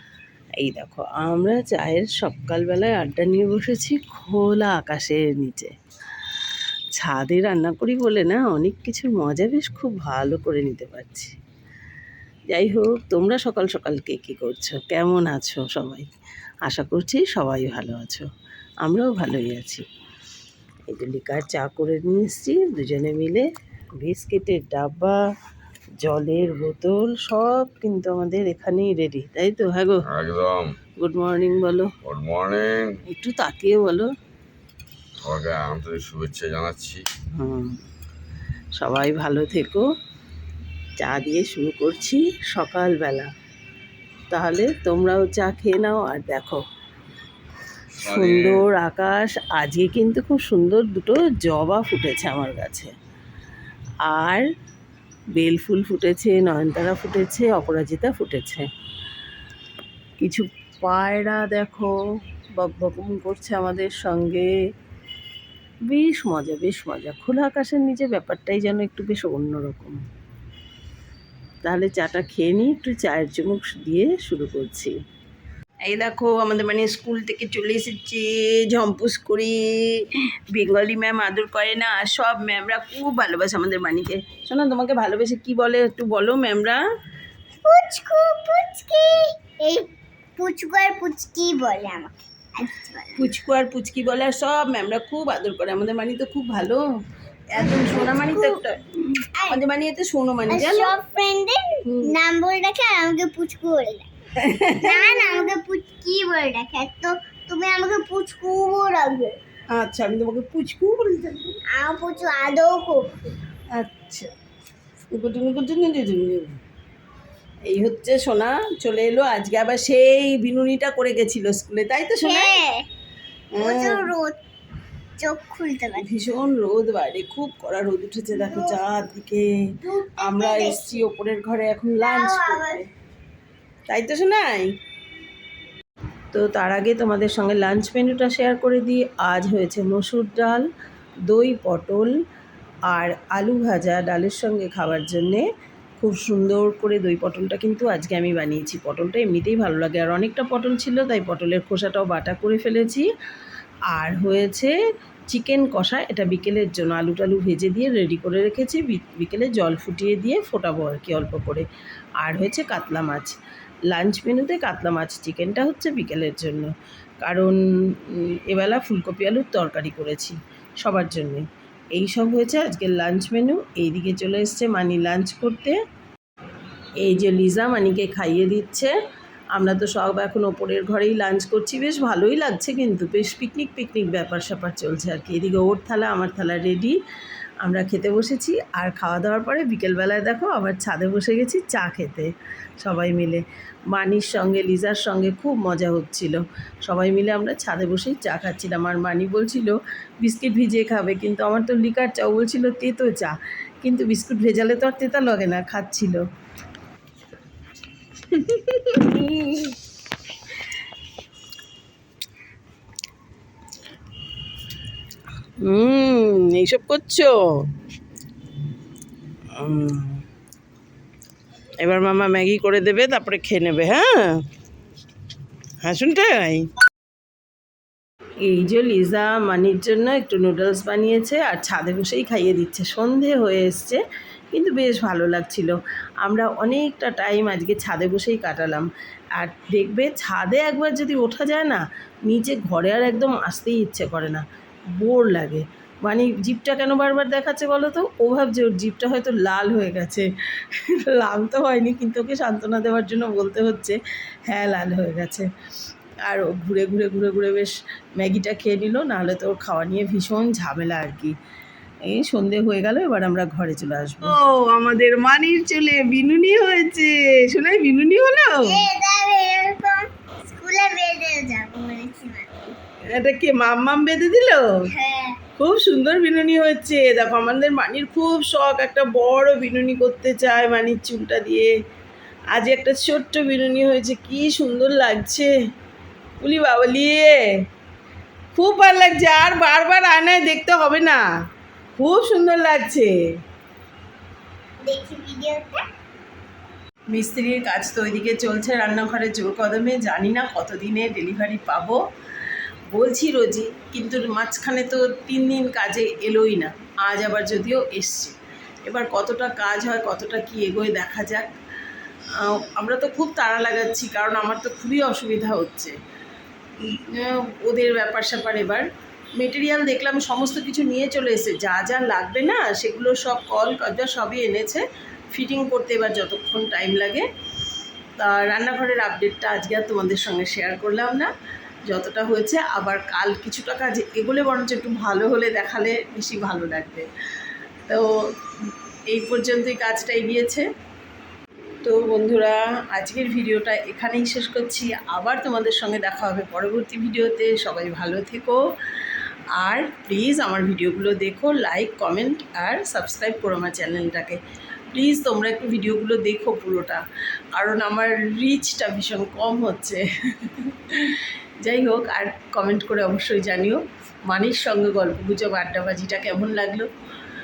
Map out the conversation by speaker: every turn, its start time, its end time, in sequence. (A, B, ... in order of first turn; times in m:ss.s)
0:00.6-0:05.7 A
0:06.9-0:11.3 A
0:12.5-0:16.1 A
0:16.7-0:18.2 A
0:18.8-0:19.8 A
0:20.9-0:25.2 A
0:26.0-0:30.0 A
0:30.1-0:30.7 B
0:31.0-0:31.9 A
0:32.0-0:33.0 B
0:33.1-0:34.1 A
0:35.2-0:37.0 B
0:37.3-0:37.8 A
0:38.8-0:39.9 A
0:41.0-0:43.3 A
0:44.3-0:46.6 A
0:48.0-0:48.6 B
0:48.0-0:52.9 A
0:54.0-0:54.4 A
0:55.4-0:58.7 A
1:00.2-1:01.9 A
1:02.6-1:04.5 A
1:05.9-1:10.0 A
1:11.6-1:14.9 A
1:15.8-1:26.8 A
1:27.6-1:33.2 C
1:33.2-1:36.8 A
1:37.5-1:41.0 A
1:37.6-1:38.6 C
1:40.5-1:44.1 C
1:41.8-1:42.1 A
1:44.4-1:45.5 A
1:44.8-1:49.4 C
1:49.7-1:51.6 A
1:51.7-1:53.1 C
1:53.7-1:54.3 A
1:55.1-1:56.5 A
1:57.7-2:02.6 A
2:02.2-2:02.8 C
2:03.6-2:04.1 A
2:03.6-2:04.4 C
2:05.2-2:06.0 C
2:06.0-2:09.5 A
2:08.3-2:08.8 C
2:09.8-2:11.1 C
2:10.2-2:12.9 A
2:12.0-2:12.8 C
2:13.9-2:14.7 A
2:16.3-2:20.7 A
2:21.3-2:22.1 A
2:22.9-2:25.4 A
2:26.0-2:33.1 A
2:33.9-2:34.7 A
2:35.3-2:41.6 A
2:42.2-2:43.3 A
2:43.9-2:46.7 A
2:47.2-2:51.4 A
2:52.0-2:55.8 A
2:57.0-2:58.9 A
2:59.5-3:07.0 A
3:07.6-3:12.3 A
3:12.8-3:26.2 A
3:28.3-3:29.7 A
3:35.6-3:37.3 A
3:39.6-3:40.2 A
3:41.8-3:44.3 A
3:45.8-3:46.7 A
3:48.4-3:54.0 A
3:54.5-3:58.8 A
3:59.4-4:04.4 A
4:05.0-4:14.0 A
4:14.5-4:15.5 A
4:16.2-4:21.3 A
4:22.1-4:28.8 A
4:28.6-4:32.7 C
4:33.1-4:34.6 A
4:34.9-4:35.4 C
4:35.6-4:41.7 A
4:42.5-4:45.5 A
4:46.4-4:47.4 A
4:48.5-4:51.2 A
4:52.0-4:53.1 A
4:54.8-4:55.8 C
4:57.1-5:02.0 A
5:02.9-5:08.4 A
5:08.9-5:11.5 A
5:12.4-5:15.9 A
5:16.8-5:27.2 A
5:28.2-5:31.3 A
5:31.9-5:37.1 A
5:39.1-5:40.7 A
5:41.8-5:48.6 A
5:49.5-5:54.4 A
5:54.9-5:57.0 A
5:57.6-6:06.9 A